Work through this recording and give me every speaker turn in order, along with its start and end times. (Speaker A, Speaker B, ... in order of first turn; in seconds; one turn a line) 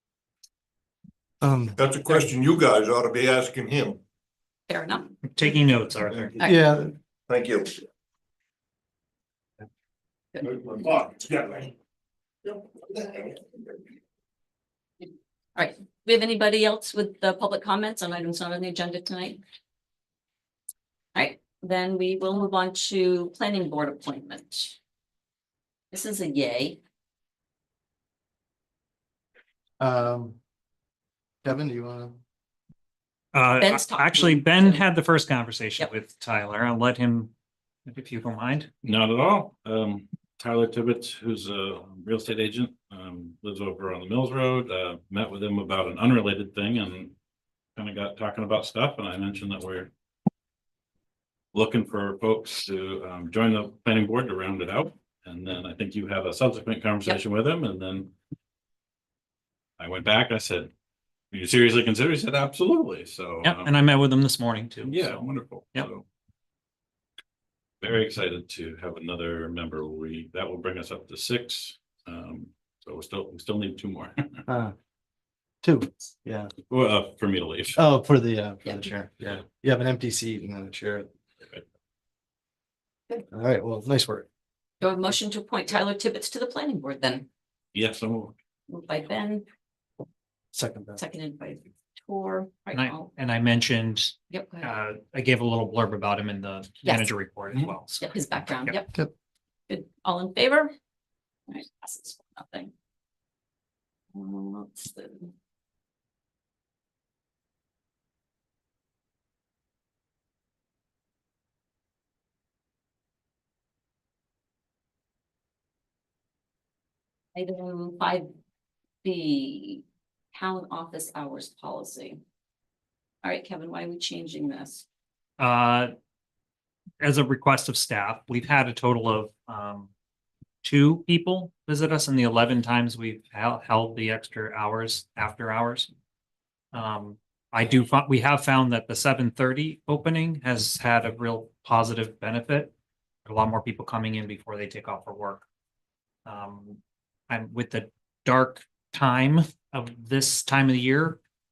Speaker A: 1.4-1.8
Speaker B: 1.8-4.0
Speaker C: 4.7-5.1
Speaker D: 5.2-6.4
Speaker A: 6.3-6.9
Speaker B: 7.3-7.7
Speaker B: 10.4-11.7
Speaker B: 12.4-13.6
Speaker C: 15.5-19.4
Speaker C: 21.1-24.8
Speaker C: 25.9-26.8
Speaker A: 29.8-30.4
Speaker A: 31.4-32.2
Speaker D: 33.3-37.3
Speaker C: 33.6-34.8
Speaker D: 37.9-38.7
Speaker E: 38.8-47.2
Speaker E: 47.8-49.9
Speaker E: 51.5-58.1
Speaker E: 59.8-60.7
Speaker E: 61.3-63.7
Speaker D: 63.4-65.9
Speaker E: 64.8-66.0
Speaker E: 67.8-74.4
Speaker A: 74.5-74.7
Speaker A: 75.6-76.5
Speaker E: 76.7-77.8
Speaker A: 77.8-81.1
Speaker C: 78.6-78.9
Speaker A: 83.3-84.3
Speaker C: 84.8-87.3
Speaker E: 87.7-88.3
Speaker C: 88.7-89.4
Speaker A: 90.5-91.0
Speaker C: 91.0-93.1
Speaker D: 92.7-98.8
Speaker C: 94.3-94.7
Speaker C: 96.8-97.1
Speaker C: 98.0-98.9
Speaker C: 99.7-100.7
Speaker C: 101.5-102.7
Speaker C: 104.1-105.3
Speaker C: 117.3-118.3
Speaker C: 119.0-122.2
Speaker C: 123.2-124.8
Speaker D: 125.4-125.9
Speaker D: 127.0-129.9
Speaker D: 130.6-135.9
Speaker D: 136.7-142.7
Speaker D: 143.2-145.4
Speaker D: 146.2-151.2